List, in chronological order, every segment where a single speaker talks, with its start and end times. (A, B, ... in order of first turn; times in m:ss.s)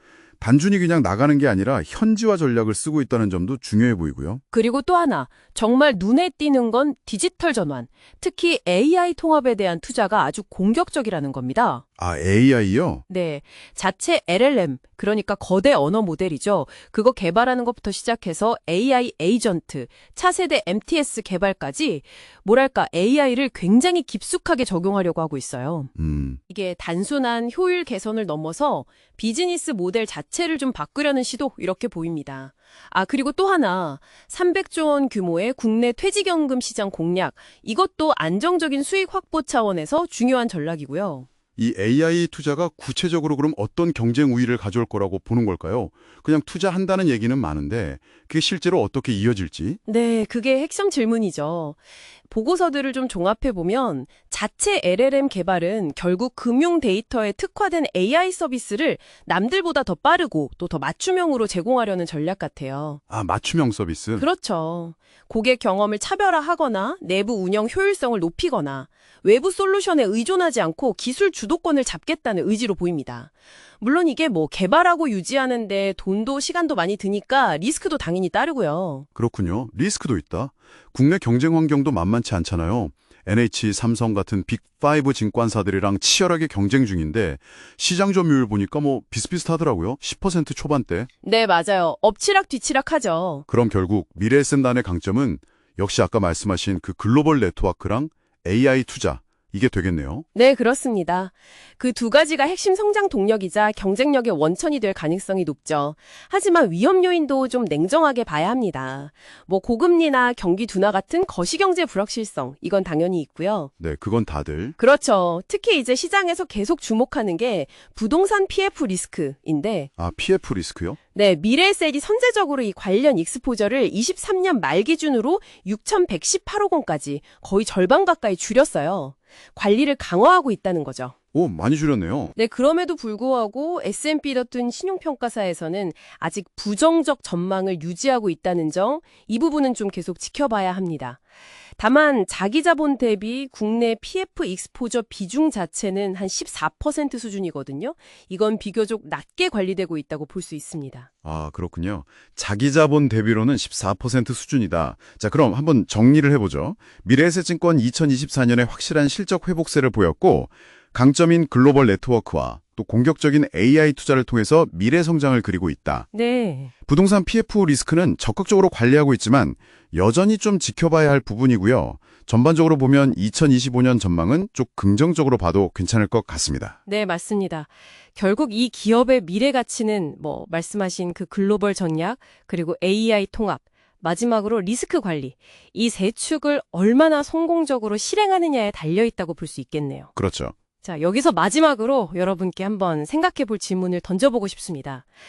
0:00.4-0:04.4 A
0:04.5-0:11.8 B
0:12.0-0:13.0 A
0:13.1-0:25.9 B
0:26.0-0:26.4 A
0:26.5-0:41.3 B
0:41.6-0:49.8 A
0:49.8-0:51.8 B
0:52.3-1:03.0 B
1:03.1-1:04.2 A
1:04.2-1:19.0 B
1:19.2-1:31.1 A
1:31.2-1:33.5 B
1:33.5-1:40.2 A
1:40.3-1:53.7 B
1:53.8-1:54.8 A
1:54.8-1:59.9 B
2:00.0-2:01.0 A
2:01.2-2:11.2 B
2:11.3-2:12.3 A
2:12.3-2:21.2 B
2:21.8-2:31.1 B
2:31.2-2:46.1 A
2:46.1-2:46.7 B
2:46.9-2:56.8 A
2:56.8-3:10.1 B
3:10.2-3:10.5 A
3:10.8-3:15.0 B